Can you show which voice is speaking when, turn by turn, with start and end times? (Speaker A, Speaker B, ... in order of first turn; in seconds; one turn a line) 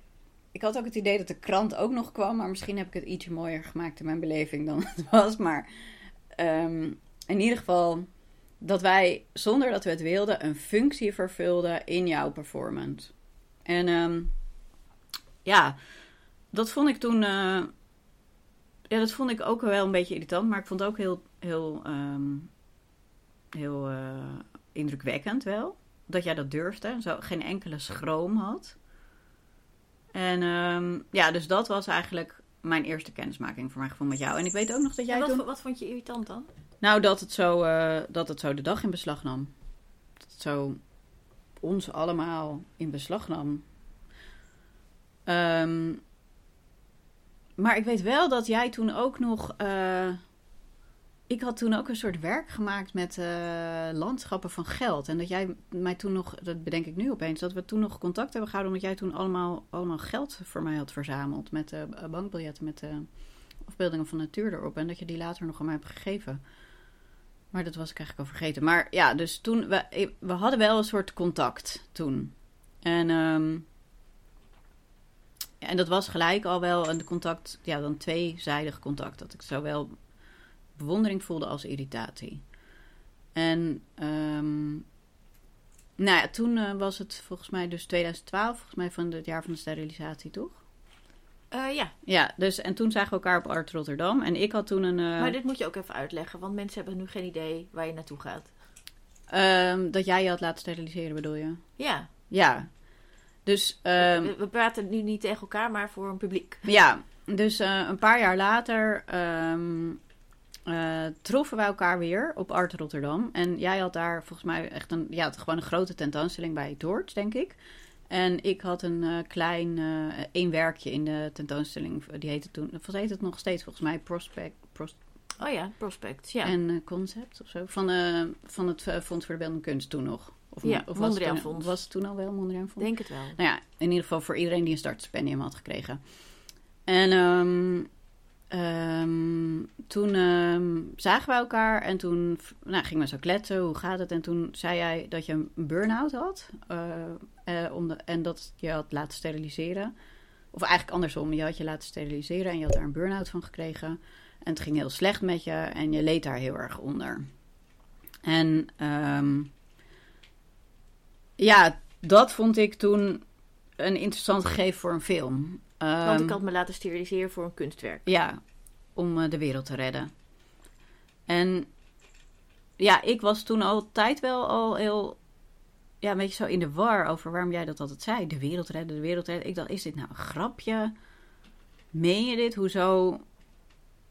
Speaker A: 0.5-8.1
Speaker A: 8.6-13.1
Speaker A: 13.7-14.3
Speaker A: 15.4-15.8
Speaker A: 16.5-17.7
Speaker A: 18.9-22.5
Speaker A: 23.5-28.8
Speaker A: 30.1-35.4
Speaker B: 35.1-36.5
Speaker A: 36.8-39.5
Speaker A: 40.3-40.8
Speaker A: 41.6-43.6
Speaker A: 45.3-46.0
Speaker A: 47.6-50.2
Speaker A: 51.3-63.1
Speaker A: 63.6-66.4
Speaker A: 67.5-73.7
Speaker A: 75.6-79.9
Speaker A: 80.8-82.4
Speaker A: 83.3-84.9
Speaker A: 86.0-90.6
Speaker B: 91.5-91.9
Speaker A: 92.0-95.3
Speaker B: 95.2-98.5
Speaker A: 99.3-101.7
Speaker B: 101.8-102.1
Speaker A: 102.3-102.7
Speaker A: 103.5-104.3
Speaker B: 104.0-106.7
Speaker A: 106.7-110.0
Speaker A: 110.7-117.6
Speaker A: 118.1-125.0
Speaker B: 125.4-126.5
Speaker A: 126.4-136.0
Speaker B: 130.6-131.7
Speaker B: 132.8-133.4
Speaker A: 136.9-137.9
Speaker A: 138.5-149.9
Speaker A: 150.5-157.3
Speaker A: 158.2-159.5
Speaker A: 161.4-163.2
Speaker A: 163.8-166.4
Speaker B: 166.0-168.1
Speaker A: 168.1-168.4
Speaker A: 169.0-170.1
Speaker A: 171.3-171.7
Speaker A: 172.8-175.2
Speaker A: 176.0-180.9
Speaker A: 181.9-183.2